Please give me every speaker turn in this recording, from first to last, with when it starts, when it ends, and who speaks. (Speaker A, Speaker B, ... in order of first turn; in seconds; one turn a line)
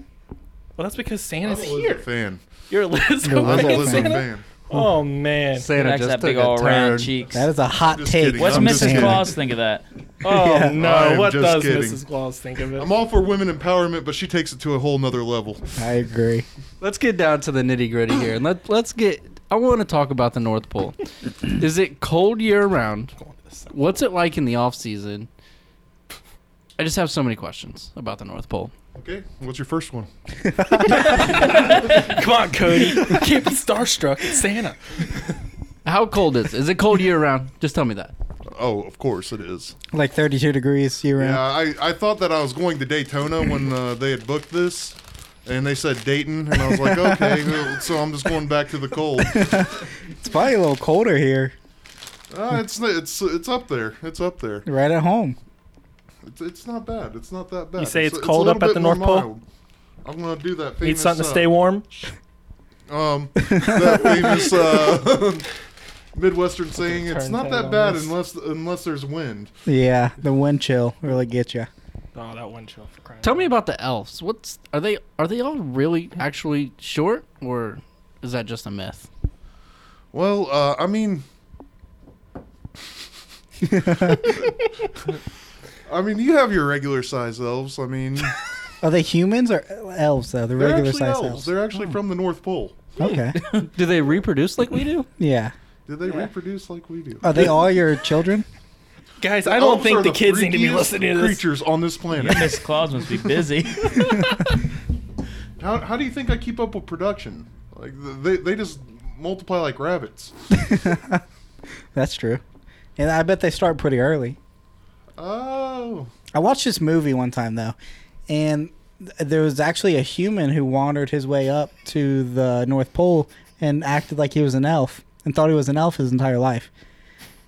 Speaker A: 0.8-2.0
Speaker B: 1.4-2.4
Speaker A: 2.7-5.7
Speaker C: 3.2-4.2
Speaker B: 3.4-4.5
Speaker D: 5.5-7.1
Speaker E: 5.8-7.5
Speaker C: 7.3-9.3
Speaker B: 7.9-9.3
Speaker E: 8.3-9.8
Speaker A: 10.2-12.9
Speaker C: 10.2-10.8
Speaker B: 10.8-12.0
Speaker B: 12.8-15.7
Speaker C: 15.8-16.5
Speaker D: 16.8-23.2
Speaker A: 23.2-23.7
Speaker D: 23.7-25.3
Speaker D: 26.8-28.7
Speaker B: 28.9-30.1
Speaker C: 30.4-31.3
Speaker A: 30.9-35.3
Speaker D: 35.8-38.1
Speaker B: 38.5-39.8
Speaker C: 39.9-41.4
Speaker B: 41.2-49.6
Speaker C: 46.7-47.6
Speaker C: 49.2-51.5
Speaker B: 52.3-54.6
Speaker C: 54.6-55.4
Speaker B: 56.2-59.4
Speaker A: 57.8-59.3
Speaker B: 60.0-61.5
Speaker A: 60.8-62.0
Speaker B: 62.9-65.5
Speaker C: 63.4-64.5
Speaker B: 66.1-69.5
Speaker A: 66.9-68.1
Speaker C: 69.7-71.7
Speaker A: 72.1-73.5
Speaker D: 73.2-79.1
Speaker B: 80.1-81.2
Speaker C: 83.6-84.4
Speaker B: 85.8-88.3
Speaker C: 88.8-91.5
Speaker B: 90.5-92.9
Speaker C: 93.0-93.4
Speaker D: 93.5-95.1
Speaker C: 95.2-95.5
Speaker B: 95.9-97.5
Speaker C: 97.2-98.5
Speaker A: 99.2-101.4
Speaker B: 99.4-102.6
Speaker E: 102.1-104.1
Speaker A: 103.9-104.5
Speaker B: 105.6-110.3
Speaker C: 110.5-111.2
Speaker C: 111.9-112.4
Speaker C: 113.0-114.4
Speaker B: 115.2-116.1
Speaker C: 116.3-117.7
Speaker C: 118.3-126.7